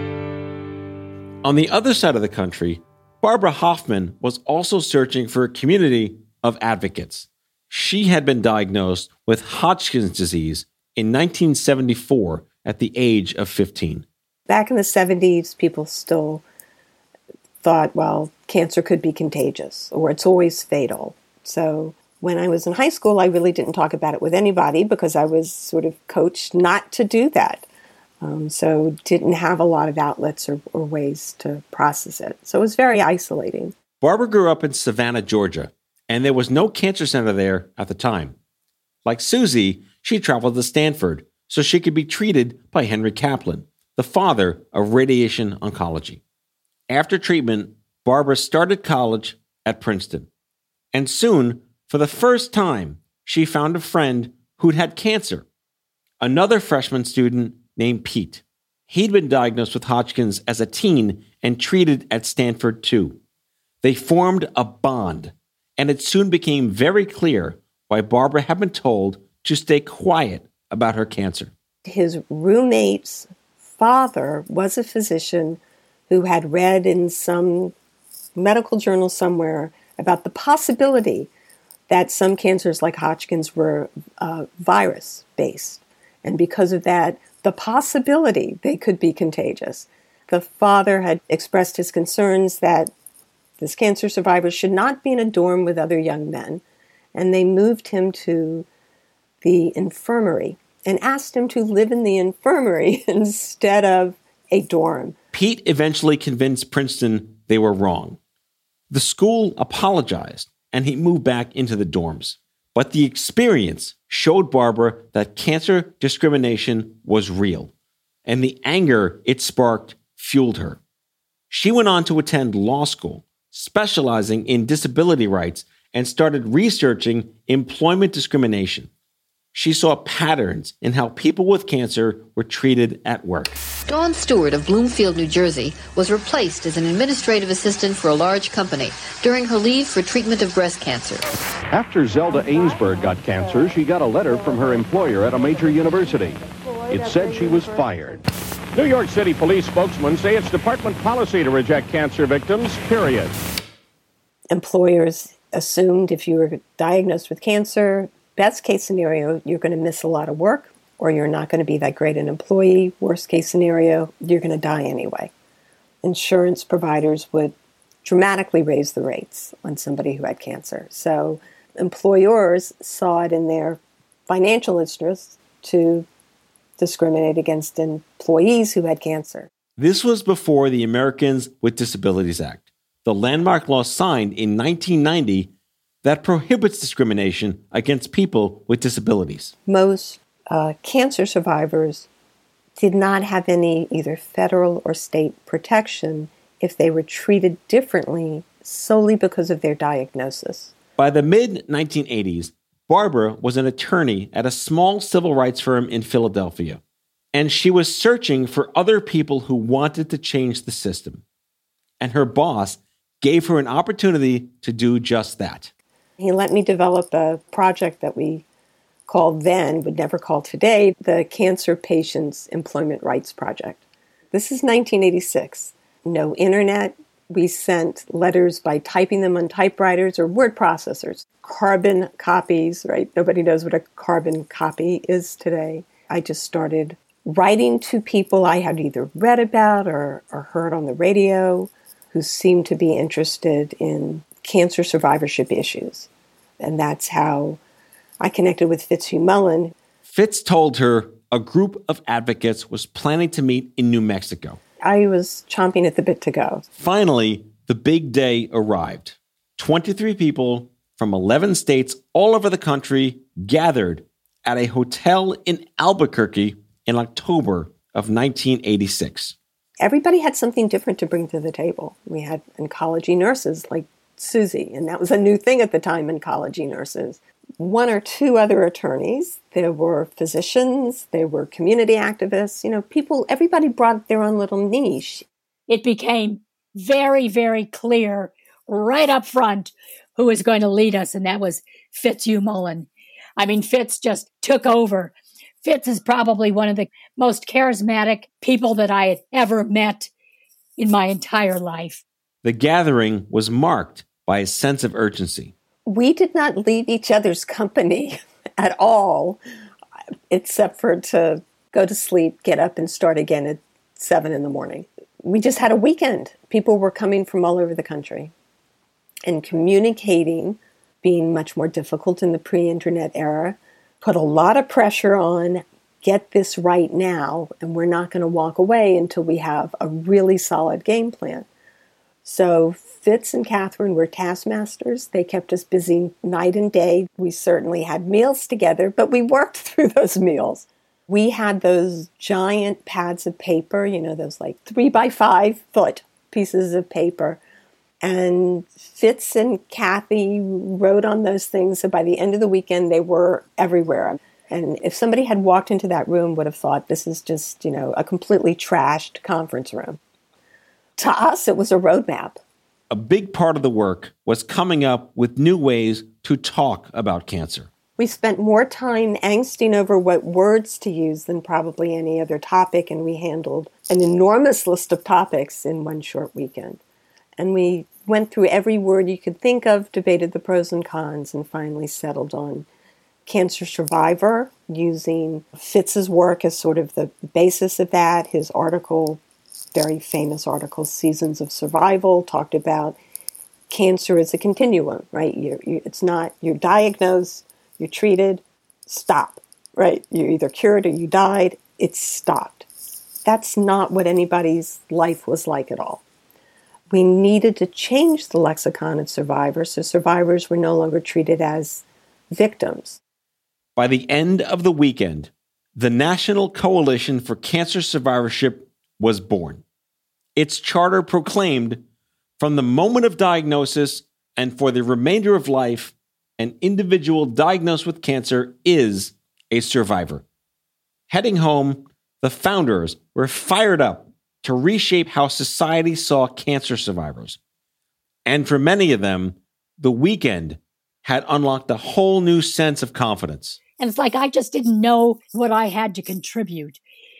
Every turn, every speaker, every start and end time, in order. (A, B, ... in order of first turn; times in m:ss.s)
0:01.4-0:14.0 A
0:14.5-0:16.4 B
0:17.6-0:27.7 B
0:28.2-0:33.7 B
0:34.0-0:38.4 A
0:39.0-0:46.2 A
0:46.9-0:50.3 A
0:50.9-0:55.4 A
0:56.2-1:03.2 A
1:03.8-1:11.5 A
1:11.8-1:17.7 B
1:18.4-1:21.3 B
1:21.9-1:32.9 B
1:33.6-1:36.6 B
1:37.1-1:38.7 B
1:39.4-1:45.2 B
1:45.3-1:48.2 A
1:48.9-1:57.7 A
1:58.3-2:00.8 A
2:01.5-2:08.9 A
2:09.5-2:13.6 A
2:13.9-2:21.3 C
2:21.7-2:28.2 D
2:28.7-2:33.3 D
2:34.5-2:45.3 B
2:46.0-2:56.1 B
2:56.8-2:59.5 B
2:59.8-3:05.5 A
3:06.0-3:09.5 A
3:09.7-3:12.1 B
3:12.8-3:20.7 B
3:21.0-3:26.8 A
3:27.3-3:31.2 A
3:32.0-3:35.7 A
3:36.2-3:38.4 B
3:39.1-4:06.1 B
4:06.6-4:07.6 B
4:08.2-4:09.8 B
4:10.1-4:14.6 A
4:14.8-4:16.6 B
4:16.8-4:29.4 A
4:29.8-4:45.2 B
4:45.7-5:00.1 E
5:00.8-5:02.0 E
5:02.4-5:05.5 A
5:05.9-5:09.4 B
5:10.3-5:18.3 B
5:19.3-5:31.5 B
5:32.2-5:47.4 B
5:48.0-6:00.0 B
6:01.0-6:02.4 B
6:02.9-6:07.7 A
6:08.0-6:16.8 B
6:17.4-6:22.7 B
6:23.3-6:29.2 B
6:29.7-6:33.0 B
6:33.7-6:42.7 B
6:43.2-6:46.0 B
6:46.9-6:53.0 B
6:53.8-6:59.6 A
7:00.4-7:01.8 A
7:02.4-7:10.2 A
7:11.1-7:17.4 A
7:18.2-7:23.6 A
7:23.8-7:26.8 E